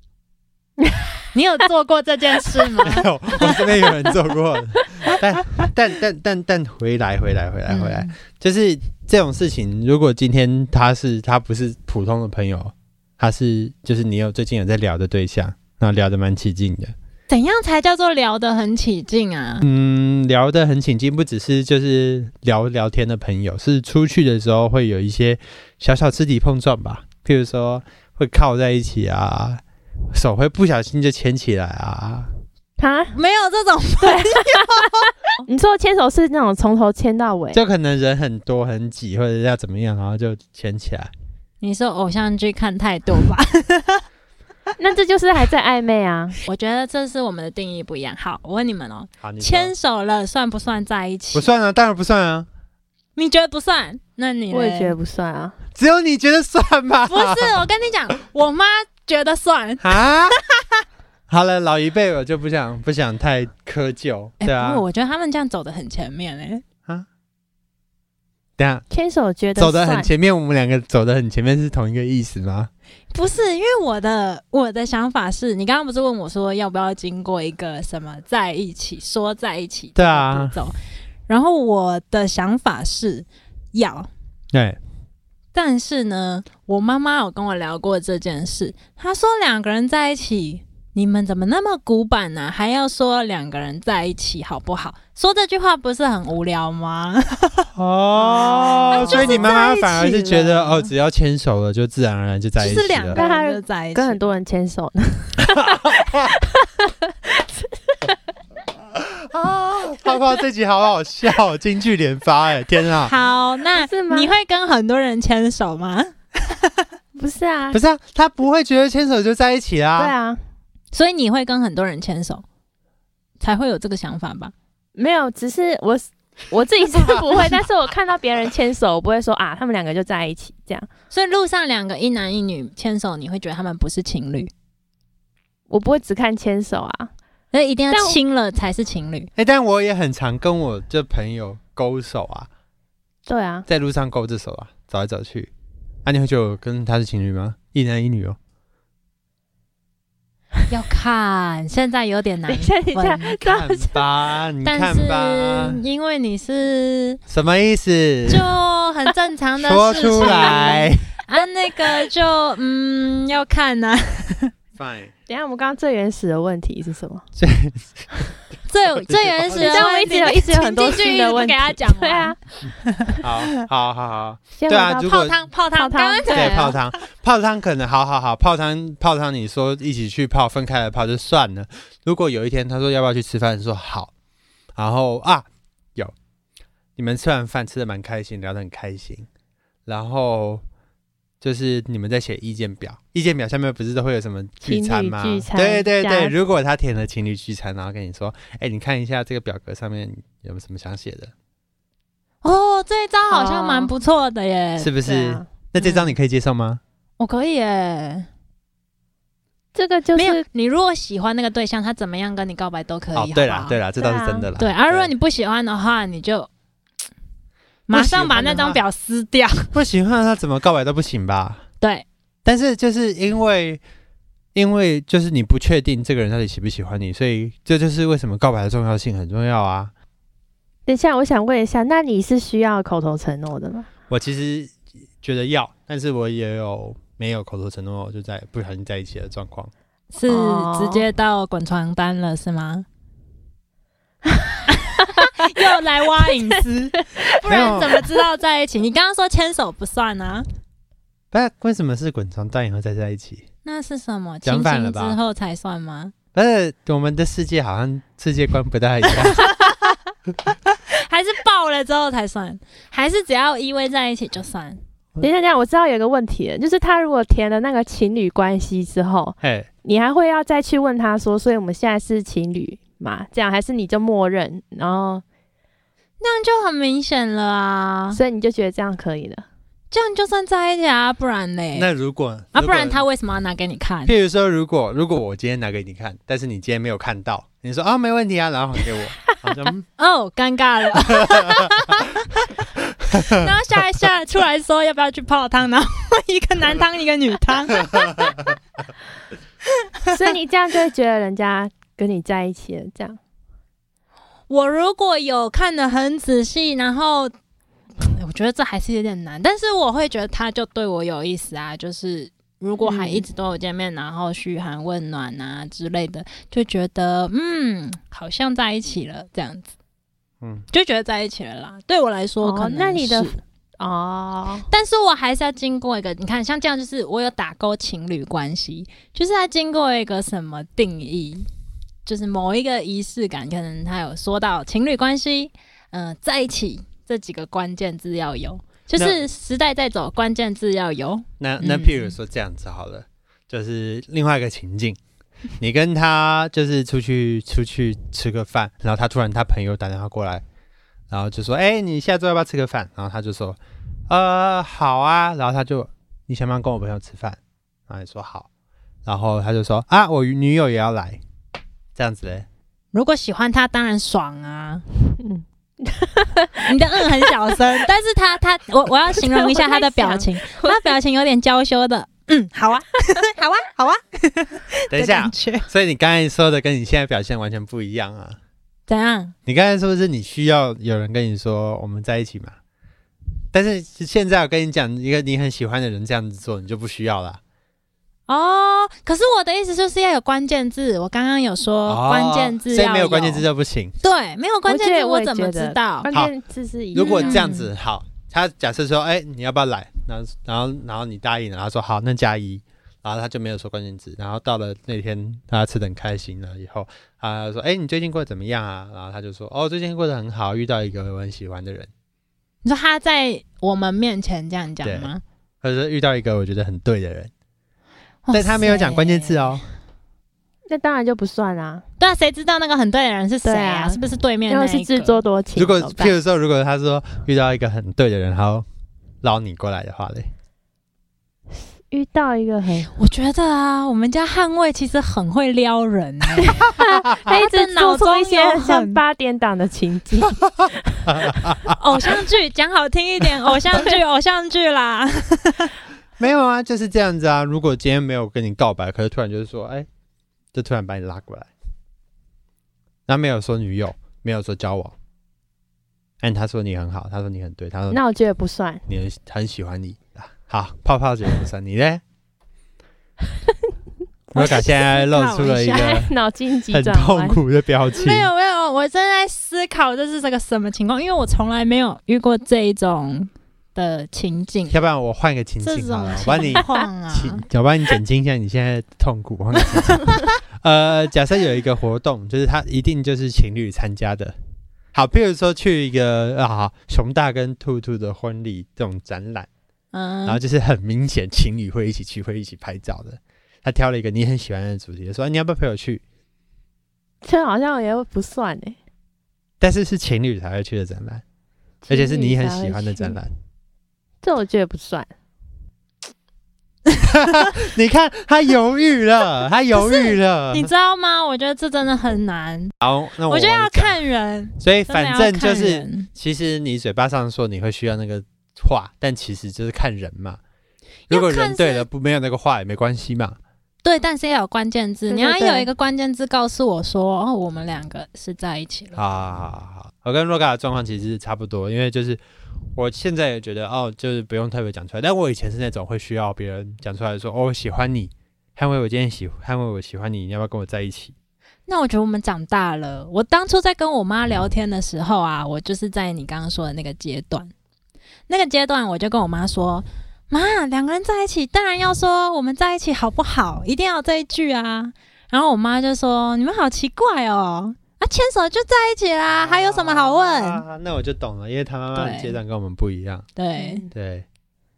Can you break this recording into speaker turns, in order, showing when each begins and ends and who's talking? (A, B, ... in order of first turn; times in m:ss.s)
0:00.8-0:01.1 A
0:01.3-0:03.6 B
0:02.8-0:16.9 C
0:07.7-0:08.1 B
0:17.3-0:19.6 B
0:19.6-0:29.6 C
0:30.1-0:32.3 C
0:32.8-0:33.1 A
0:33.1-0:35.1 B
0:34.0-0:37.6 A
0:37.5-0:41.1 C
0:41.6-0:44.0 B
0:44.8-0:46.4 A
0:46.4-0:51.5 B
0:49.2-0:49.7 C
0:51.3-0:52.5 C
0:53.2-0:54.9 B
0:54.5-0:55.6 A
0:55.7-0:57.6 C
0:57.1-1:00.8 B
0:59.8-1:00.4 C
1:01.3-1:04.8 C
1:04.4-1:06.6 B
1:08.6-1:08.8 C
1:08.9-1:10.1 A
1:09.6-1:12.7 C
1:13.1-1:20.7 B
1:20.0-1:20.5 C
1:21.3-1:24.1 B
1:24.5-1:24.8 C
1:25.5-1:37.7 B
1:37.8-1:43.2 C
1:38.2-1:40.7 A
1:38.5-1:40.3 B
1:42.6-1:44.2 B
1:43.1-1:48.2 A
1:45.4-1:46.2 C
1:48.9-1:53.1 C
1:53.0-1:56.8 B
1:53.8-1:54.3 A
1:57.2-1:57.8 A
1:57.7-2:00.1 C
2:00.0-2:00.4 A
2:00.9-2:02.4 B
2:03.4-2:04.5 B
2:05.0-2:10.9 A
2:11.1-2:14.5 B
2:15.7-2:17.1 A
2:17.5-2:19.3 B
2:17.9-2:18.2 A
2:19.4-2:22.5 C
2:23.2-2:23.7 A
2:23.7-2:25.5 C
2:26.0-2:28.4 C
2:30.7-2:33.4 B
2:32.5-2:34.0 A
2:33.4-2:35.8 C
2:34.6-2:37.2 B
2:37.3-2:38.4 C
2:38.3-2:44.5 B
2:39.6-2:41.1 C
2:40.2-2:40.6 A
2:44.8-2:45.1 C
2:45.3-2:47.2 A
2:47.4-2:48.2 C
2:48.7-2:52.4 B
2:49.1-2:49.8 C
2:49.5-2:52.4 A
2:53.2-2:55.4 C
2:54.6-2:55.1 A
2:54.9-2:56.8 B
2:55.7-2:56.8 A
2:56.3-3:04.1 C
3:04.8-3:06.1 C
3:07.0-3:09.3 C
3:09.8-3:10.6 C
3:11.4-3:21.3 C
3:14.6-3:16.3 A
3:22.4-3:24.9 B
3:23.2-3:23.9 A
3:24.8-3:26.8 C
3:25.0-3:25.5 A
3:25.8-3:26.1 B
3:27.2-3:28.3 B
3:29.7-3:30.4 A
3:30.2-3:33.8 B
3:33.1-3:35.1 C
3:34.0-3:34.5 A
3:34.6-3:36.5 B
3:37.9-3:39.7 B
3:37.9-3:38.8 C
3:39.7-3:41.6 C
3:42.4-3:43.8 C
3:44.5-3:49.9 C
3:50.8-3:53.9 A
3:54.1-3:59.7 C
4:00.1-4:02.8 B
4:00.3-4:01.0 A
4:04.4-4:08.2 A
4:04.7-4:10.4 B
4:07.4-4:08.0 C
4:11.3-4:13.4 C
4:13.6-4:16.1 B
4:14.4-4:15.2 C
4:16.3-4:19.5 C
4:19.2-4:19.9 B
4:20.5-4:24.8 B
4:25.2-4:35.2 A
4:29.4-4:29.7 C
4:36.2-4:38.2 B
4:38.1-4:39.4 A
4:39.9-4:41.9 B
4:41.7-4:43.0 C
4:42.5-4:44.1 B
4:44.0-4:49.8 C
4:50.0-4:52.5 B
4:51.3-4:51.7 C
4:53.0-4:58.5 B
4:53.1-4:53.4 C
5:00.1-5:03.2 A
5:04.5-5:07.3 B
5:08.0-5:19.7 B
5:12.8-5:13.2 A
5:20.7-5:23.4 B
5:22.4-5:24.7 A
5:24.7-5:31.4 B
5:32.0-5:42.1 B
5:41.4-5:45.0 C
5:45.6-5:50.4 C
5:51.1-5:58.5 C
5:59.0-6:01.2 C
6:01.9-6:02.5 C
6:02.9-6:04.8 B
6:05.2-6:07.8 A
6:06.6-6:15.6 B
6:09.2-6:10.9 A
6:14.9-6:18.4 C
6:18.9-6:19.3 B
6:19.4-6:22.5 C
6:23.5-6:27.4 C
6:28.3-6:33.4 B
6:31.9-6:33.9 C
6:34.0-6:36.1 B
6:34.7-6:37.4 A
6:36.9-6:51.9 C
6:37.0-6:37.7 B
6:52.6-6:55.2 B
6:54.8-6:55.1 C
6:55.6-6:57.3 C
6:58.2-6:59.6 B
6:58.3-6:59.6 C
7:00.7-7:01.8 A
7:02.0-7:05.2 B
7:03.4-7:06.1 A
7:05.6-7:08.6 C
7:09.2-7:10.3 C
7:11.9-7:12.9 A
7:13.0-7:19.0 B
7:16.4-7:21.4 A
7:21.1-7:21.8 C
7:21.7-7:25.7 B
7:26.2-7:29.9 C
7:30.5-7:31.5 C
7:33.1-7:34.9 C
7:36.2-7:38.0 C
7:37.9-7:38.8 A
7:38.9-7:42.0 C
7:44.3-7:46.1 C
7:44.4-7:46.0 B
7:45.7-7:47.4 A
7:46.7-7:48.3 C
7:47.9-7:54.8 B
7:54.7-8:04.3 C
7:55.6-7:57.4 B
8:04.9-8:09.5 C
8:09.9-8:10.4 B
8:10.2-8:16.0 C
8:17.2-8:18.8 A
8:19.6-8:21.2 C
8:21.8-8:23.2 A
8:21.9-8:23.3 C
8:24.2-8:25.1 A
8:27.0-8:30.7 C
8:29.7-8:32.7 B
8:32.8-8:34.0 C
8:33.3-8:36.1 B
8:34.6-8:40.4 C
8:41.1-8:41.8 B
8:41.1-8:43.4 C
8:43.8-8:49.0 B
8:45.1-8:45.7 A
8:48.9-8:52.2 C
8:52.8-9:01.1 C
9:01.7-9:07.5 B
9:08.3-9:20.6 B
9:19.4-9:23.2 C
9:21.9-9:22.4 B
9:23.4-9:23.8 B
9:23.6-9:23.9 A
9:23.9-9:24.2 C